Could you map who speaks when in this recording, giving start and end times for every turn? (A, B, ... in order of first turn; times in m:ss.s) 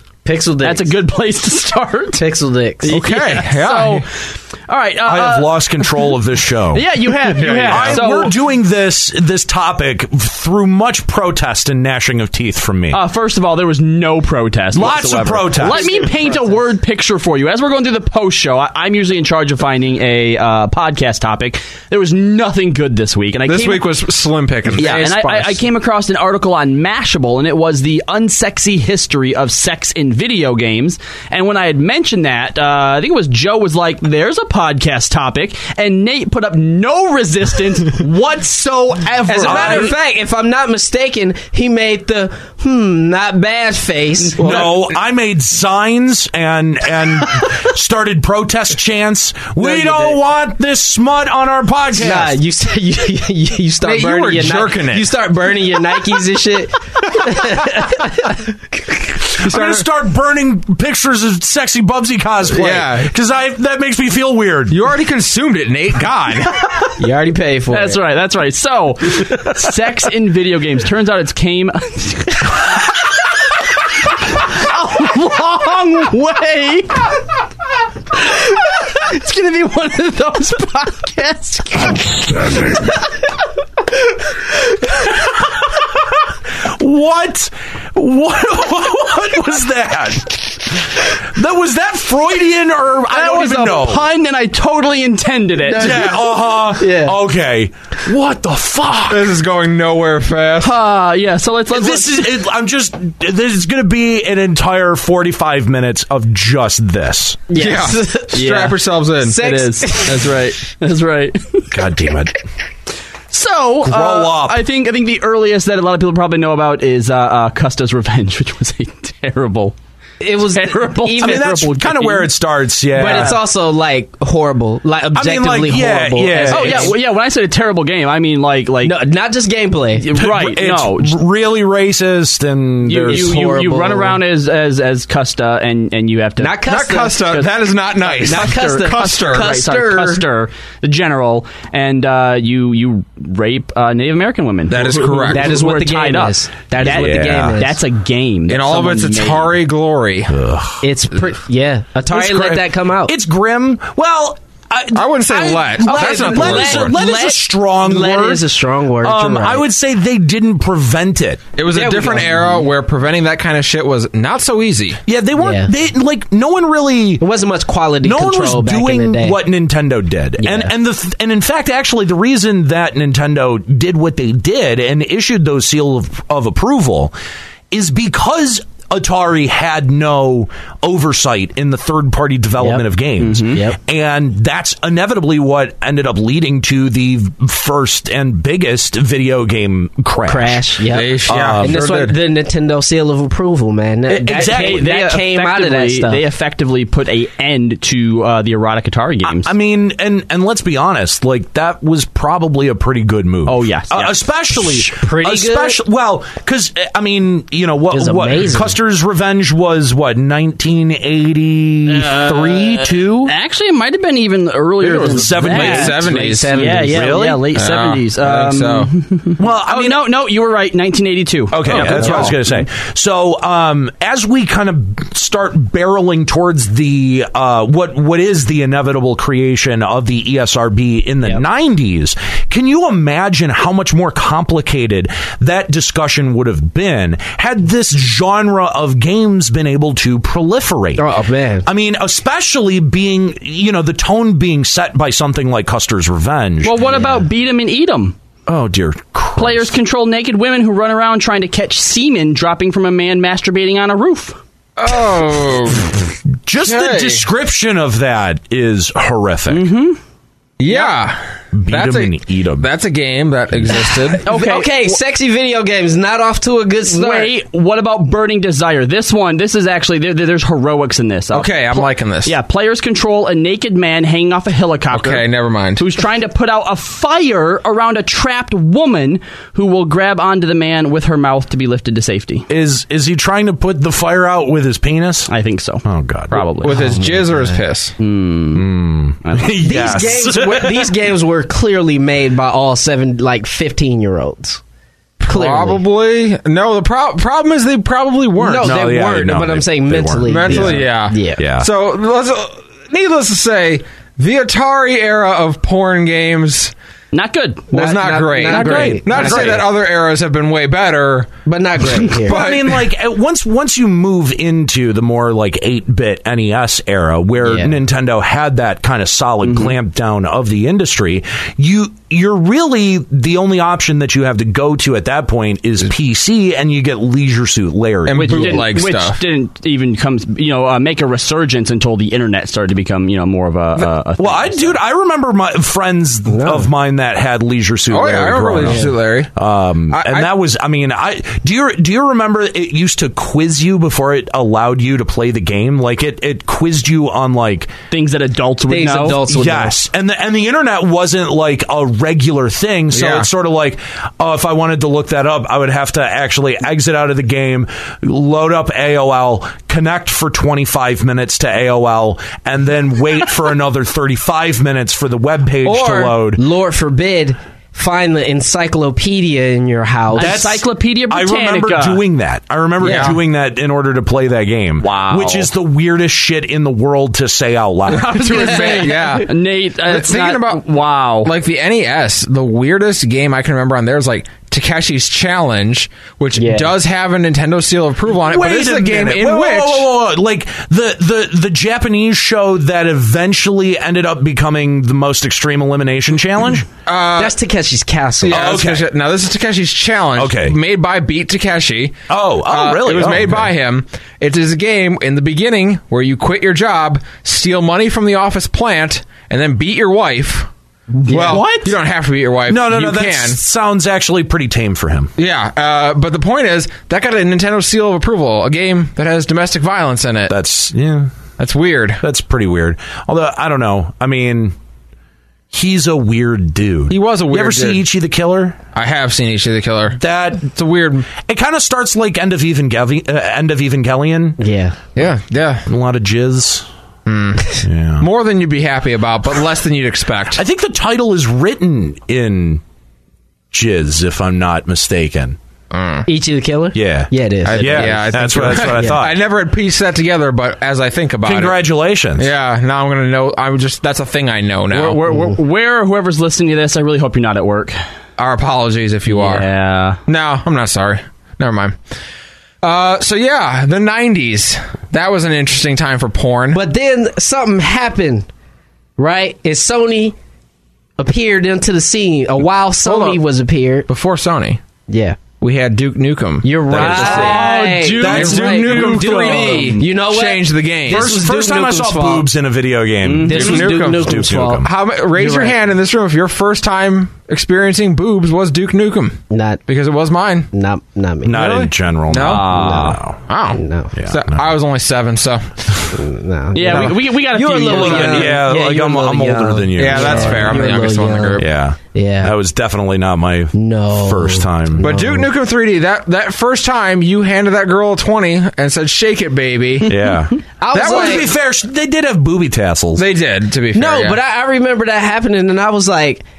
0:00.2-0:00.9 A
0:00.6-0:02.2 B
0:02.1-0:03.0 A
0:02.8-0:04.1 B
0:02.9-0:04.0 C
0:04.7-0:06.1 B
0:05.0-0:06.8 D
0:06.7-0:08.4 B
0:07.2-0:08.1 C
0:07.6-0:13.0 D
0:12.9-0:23.9 B
0:14.7-0:15.8 D
0:15.6-0:16.6 A
0:23.5-0:25.1 C
0:24.7-0:25.5 A
0:24.8-0:40.0 B
0:24.8-0:25.1 D
0:39.3-0:44.7 A
0:39.4-0:39.9 D
0:44.4-0:52.4 D
0:44.4-0:44.7 C
0:49.6-0:50.2 A
0:51.9-0:58.4 A
0:53.8-0:55.1 C
0:59.3-1:04.8 D
0:59.4-0:59.8 C
1:02.5-1:03.1 C
1:04.7-1:06.9 C
1:07.0-1:08.0 A
1:07.7-1:13.0 B
1:13.9-1:17.2 B
1:18.1-1:23.0 B
1:26.6-1:34.0 D
1:33.1-1:36.1 B
1:35.7-1:36.1 A
1:35.7-1:39.4 D
1:36.7-1:37.1 A
1:39.1-1:40.7 C
1:40.6-1:42.3 B
1:41.7-1:47.4 D
1:47.5-1:48.4 A
1:47.5-1:49.4 C
1:48.3-1:51.8 B
1:49.2-1:50.3 A
1:51.7-1:52.4 D
1:53.3-1:59.7 B
1:53.8-1:54.6 D
2:00.2-2:01.6 A
2:00.4-2:02.3 B
2:01.2-2:03.4 D
2:02.9-2:06.9 A
2:03.1-2:03.3 B
2:05.1-2:06.9 D
2:06.5-2:09.0 B
2:08.8-2:10.0 A
2:10.0-2:11.2 B
2:10.1-2:13.5 D
2:12.8-2:16.7 B
2:13.1-2:14.2 A
2:16.4-2:17.3 A
2:16.6-2:19.5 C
2:17.2-2:29.6 B
2:18.2-2:20.2 A
2:24.7-2:25.5 C
2:25.3-2:27.8 A
2:26.8-2:27.6 D
2:28.5-2:30.4 C
2:30.3-2:30.8 D
2:30.8-2:33.1 A
2:32.1-2:38.4 D
2:34.9-2:36.9 C
2:35.8-2:39.6 A
2:39.0-2:41.5 D
2:41.6-2:45.0 C
2:41.7-2:42.7 A
2:45.0-2:47.2 D
2:45.4-2:45.7 A
2:47.2-2:49.4 A
2:48.0-2:57.1 D
2:50.4-2:50.7 A
2:57.7-3:10.6 D
3:03.2-3:03.6 B
3:03.5-3:03.8 A
3:10.2-3:16.2 A
3:10.9-3:12.2 C
3:11.3-3:11.8 D
3:14.2-3:14.8 D
3:14.2-3:19.5 B
3:19.2-3:33.3 D
3:23.4-3:24.2 B
3:24.6-3:25.8 A
3:27.9-3:28.8 A
3:31.9-3:42.4 B
3:34.9-3:37.1 A
3:35.0-3:36.1 D
3:35.5-3:36.7 C
3:36.8-3:37.5 D
3:37.5-3:38.9 C
3:39.4-3:40.0 D
3:41.5-4:01.0 D
3:41.7-3:42.3 C
4:01.0-4:01.6 A
4:01.6-4:07.0 D
4:06.6-4:08.1 B
4:08.5-4:09.7 D
4:09.4-4:14.4 B
4:14.8-4:15.9 C
4:16.4-4:19.7 D
4:16.6-4:17.2 C
4:19.5-4:20.0 B
4:20.6-4:24.2 C
4:21.5-4:22.7 D
4:24.2-4:25.0 B
4:24.2-4:27.3 A
4:26.8-4:42.5 B
4:31.3-4:32.3 C
4:34.9-4:35.8 C
4:42.5-4:45.3 D
4:45.3-4:46.8 B
4:45.8-4:46.5 D
4:46.6-4:47.9 C
4:46.7-4:47.6 A
4:48.0-4:48.7 B
4:48.5-4:50.9 D
4:49.2-4:49.5 B
4:49.6-4:54.6 A
4:55.2-4:58.7 C
4:55.3-4:55.8 A
4:58.4-5:01.4 A
4:58.6-5:01.7 D
5:00.3-5:06.7 C
5:07.1-5:07.7 B
5:07.7-5:11.3 C
5:07.7-5:09.6 A
5:08.4-5:09.7 D
5:11.4-5:12.4 A
5:11.9-5:12.8 C
5:12.2-5:28.6 D
5:17.4-5:17.7 A
5:19.4-5:19.8 B
5:28.1-5:29.2 C
5:28.1-5:34.8 B
5:34.2-5:47.7 D
5:36.3-5:36.7 A
5:37.9-5:39.3 C
5:39.9-5:40.3 C
5:47.9-5:49.2 B
5:48.7-5:49.8 A
5:49.3-6:06.4 D
5:52.9-5:53.3 C
6:05.6-6:10.4 A
6:10.1-6:12.0 B
6:10.2-6:18.8 D
6:12.8-6:13.2 C
6:14.8-6:15.5 B
6:17.9-6:21.3 B
6:18.0-6:19.3 C
6:19.8-6:20.6 C
6:21.2-6:29.9 C
6:26.3-6:26.7 A
6:28.1-6:36.7 D
6:36.8-6:37.4 C
6:37.2-6:38.5 A
6:38.2-6:50.5 C
6:38.3-6:38.9 D
6:40.1-6:40.6 D
6:42.1-6:43.5 D
6:51.0-6:53.4 C
6:51.1-6:51.4 A
6:51.1-6:51.7 B
6:52.4-6:55.1 D
6:55.2-7:00.3 C
7:00.3-7:01.1 D
7:01.4-7:02.0 C
7:02.0-7:04.6 D
7:05.5-7:08.6 D
7:06.9-7:07.8 C
7:08.7-7:11.1 C
7:09.9-7:10.5 D
7:11.1-7:14.4 D
7:14.4-7:14.8 A
7:15.0-7:15.6 C
7:15.6-7:16.7 D
7:17.0-7:20.4 C
7:17.5-7:18.1 D
7:20.3-7:22.6 D
7:23.5-7:25.4 D
7:25.7-7:26.1 C
7:26.0-7:29.0 A
7:26.7-7:29.2 D
7:27.4-7:31.6 C
7:31.2-7:32.3 D
7:32.2-7:35.0 C
7:34.7-7:37.8 B
7:35.1-7:35.4 A
7:38.2-7:39.5 C
7:39.1-7:40.0 B
7:40.1-7:41.8 C
7:42.6-7:46.6 C
7:46.5-7:48.3 A
7:49.0-7:50.1 A
7:51.0-7:53.9 A
7:52.8-7:53.2 C
7:53.9-7:54.6 C
7:54.9-7:55.2 A
7:55.4-7:57.5 C
7:56.4-8:02.3 A
7:56.7-7:59.6 D
7:57.0-7:59.8 B
7:58.0-8:01.1 C
8:00.8-8:04.7 D
8:03.0-8:03.5 B
8:03.3-8:05.6 A
8:03.3-8:10.5 C
8:09.3-8:09.6 A
8:10.5-8:11.4 A
8:11.2-8:13.2 D
8:11.3-8:12.5 C
8:12.2-8:13.0 B
8:12.5-8:13.0 A
8:13.3-8:15.7 C
8:13.5-8:13.9 A
8:13.9-8:14.5 D
8:15.9-8:21.4 A
8:16.5-8:18.3 B
8:16.6-8:16.9 C
8:17.7-8:18.2 C
8:17.7-8:20.7 D
8:19.7-8:21.5 C
8:21.4-8:24.9 D
8:21.9-8:22.3 A
8:23.5-8:25.3 A
8:24.8-8:30.0 C
8:29.8-8:33.0 D
8:30.6-8:31.3 A
8:30.7-8:31.3 C
8:32.9-8:34.2 C
8:33.7-8:36.2 A